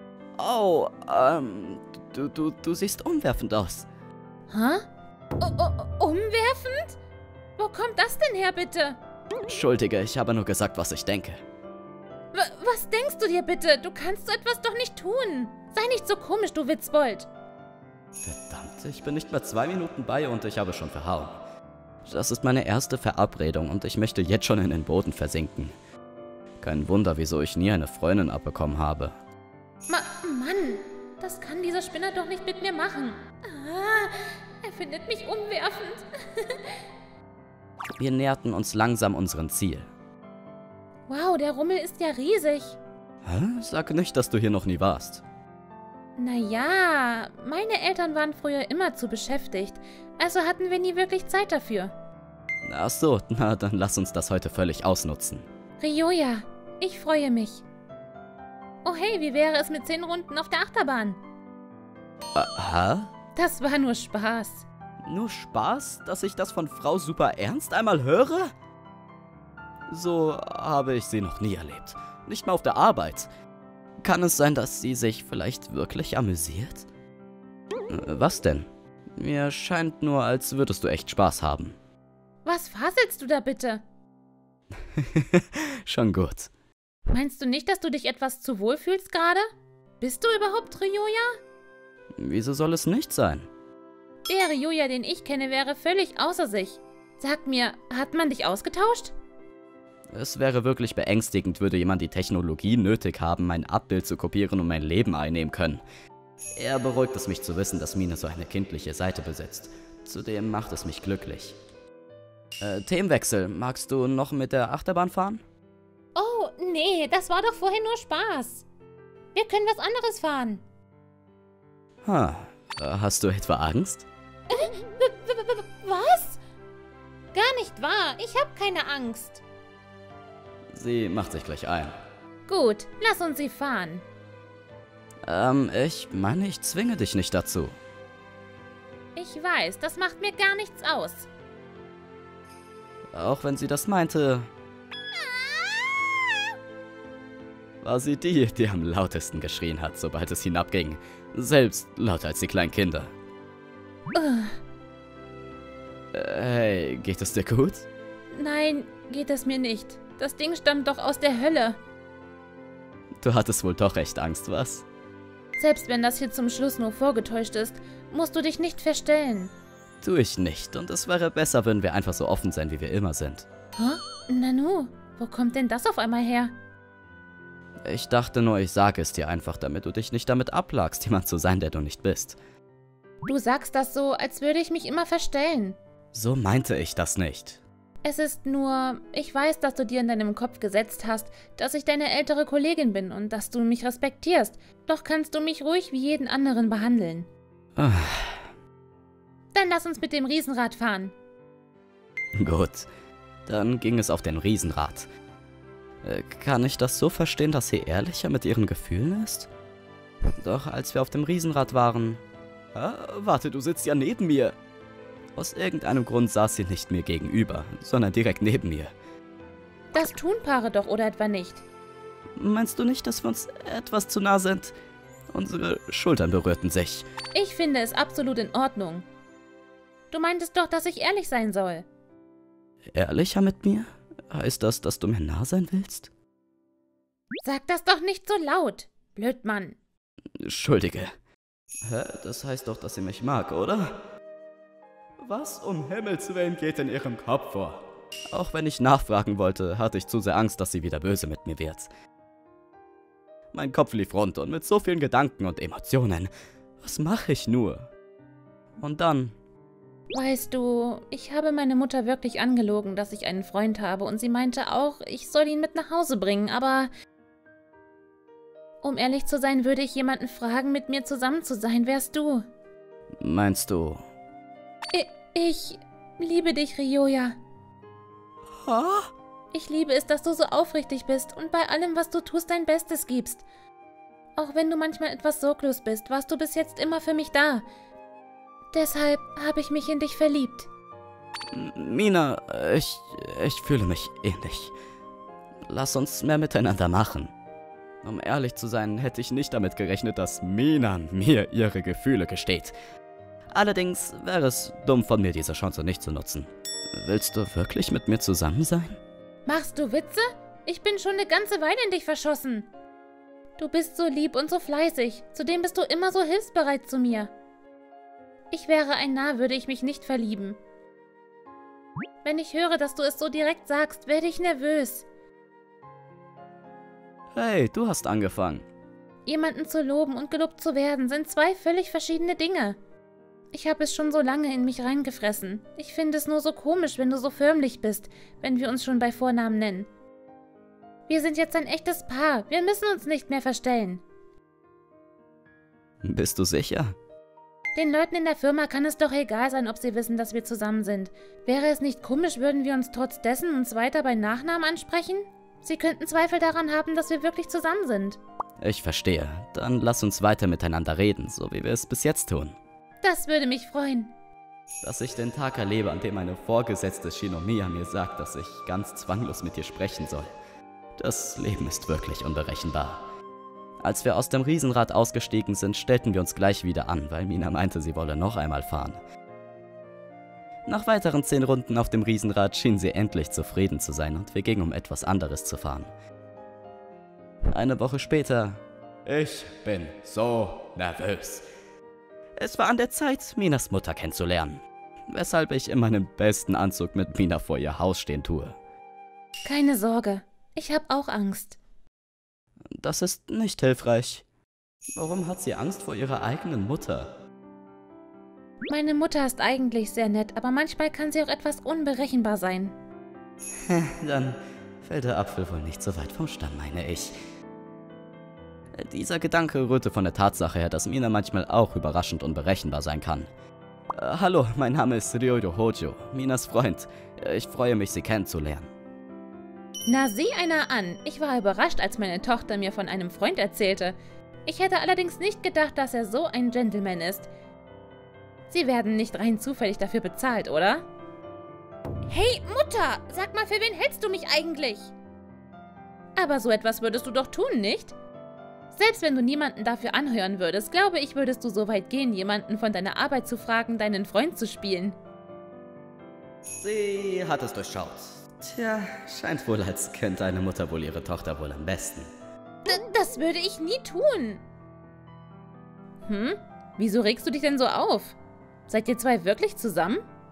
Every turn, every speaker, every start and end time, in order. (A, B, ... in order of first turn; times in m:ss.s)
0:00.4-0:03.9 A
0:04.5-0:04.8 B
0:05.4-0:07.0 B
0:07.6-0:09.0 B
0:09.4-0:11.4 A
0:12.3-0:17.3 B
0:18.2-0:21.4 A
0:22.0-0:25.7 A
0:26.6-0:29.1 A
0:29.9-0:36.8 B
0:38.0-0:39.9 A
0:41.1-0:42.8 B
0:43.2-0:45.2 A
0:46.2-0:51.9 B
0:52.6-0:55.5 A
0:55.8-0:57.6 B
0:58.8-1:01.2 B
1:02.3-1:03.1 A
1:03.3-1:04.6 B
1:05.0-1:08.5 A
1:09.9-1:13.3 A
1:14.0-1:16.8 A
1:17.9-1:21.8 A
1:22.4-1:23.8 B
1:24.9-1:26.5 A
1:27.1-1:29.5 B
1:30.0-1:31.4 B
1:32.2-1:33.5 A
1:34.3-1:39.1 B
1:40.1-1:45.8 A
1:46.6-1:51.6 A
1:52.6-1:55.4 A
1:56.1-1:58.6 B
1:59.3-2:00.6 B
2:02.0-2:04.0 A
2:04.5-2:06.4 B
2:07.3-2:09.4 B
2:10.7-2:12.0 A
2:12.5-2:14.0 B
2:15.2-2:17.8 A
2:19.2-2:21.3 B
2:23.1-2:24.5 A
2:27.8-2:33.1 A
2:34.1-2:34.6 B
2:36.1-2:37.8 A
2:38.3-2:41.8 B
2:43.2-2:44.8 A
2:45.6-2:49.5 B
2:50.0-2:53.4 A
2:53.8-2:56.5 B
2:57.8-3:02.4 A
3:03.2-3:05.8 B
3:06.1-3:07.6 A
3:08.0-3:17.3 B
3:17.8-3:18.4 A
3:19.5-3:21.1 B
3:22.4-3:22.9 A
3:23.4-3:25.1 A
3:26.0-3:29.5 A
3:30.3-3:32.2 A
3:32.7-3:34.6 A
3:35.3-3:38.9 A
3:39.9-3:41.6 B
3:42.4-3:44.7 A
3:45.3-3:47.0 A
3:47.3-3:49.0 B
3:50.1-3:51.8 B
3:52.9-3:56.1 A
3:57.4-3:59.8 B
4:00.4-4:01.1 A
4:01.8-4:04.0 A
4:05.2-4:11.9 A
4:13.5-4:17.9 A
4:18.8-4:19.3 A
4:20.1-4:26.9 B
4:28.8-4:32.4 B
4:33.2-4:34.0 A
4:34.9-4:37.4 B
4:38.6-4:39.1 A
4:39.5-4:43.4 B
4:44.4-4:47.6 B
4:48.7-4:50.7 B
4:51.5-4:54.7 A
4:55.7-4:57.3 A
4:58.0-5:02.7 A
5:03.5-5:09.0 A
5:09.4-5:12.7 B
5:13.6-5:17.3 B
5:18.5-5:20.6 B
5:22.2-5:25.0 B
5:27.3-5:28.7 A
5:29.2-5:32.8 B
5:33.5-5:39.9 B
5:41.1-5:44.0 B
5:46.0-5:47.0 A
5:47.7-5:58.2 B
5:58.6-6:02.6 A
6:03.0-6:04.1 B
6:04.8-6:10.3 A
6:11.0-6:13.0 A
6:13.8-6:19.0 A
6:20.6-6:25.9 A
6:27.5-6:31.4 A
6:32.4-6:38.6 A
6:39.5-6:41.6 B
6:42.7-6:44.2 A
6:45.0-6:47.1 A
6:48.7-6:52.7 B
6:53.6-6:57.1 A
6:58.8-7:03.3 A
7:03.9-7:08.7 A
7:09.9-7:17.3 B
7:18.5-7:20.8 B
7:22.1-7:24.9 B
7:26.2-7:27.9 B
7:28.7-7:35.0 B
7:36.6-7:42.1 A
7:42.6-7:44.4 B
7:46.0-7:48.2 B
7:48.7-7:50.0 B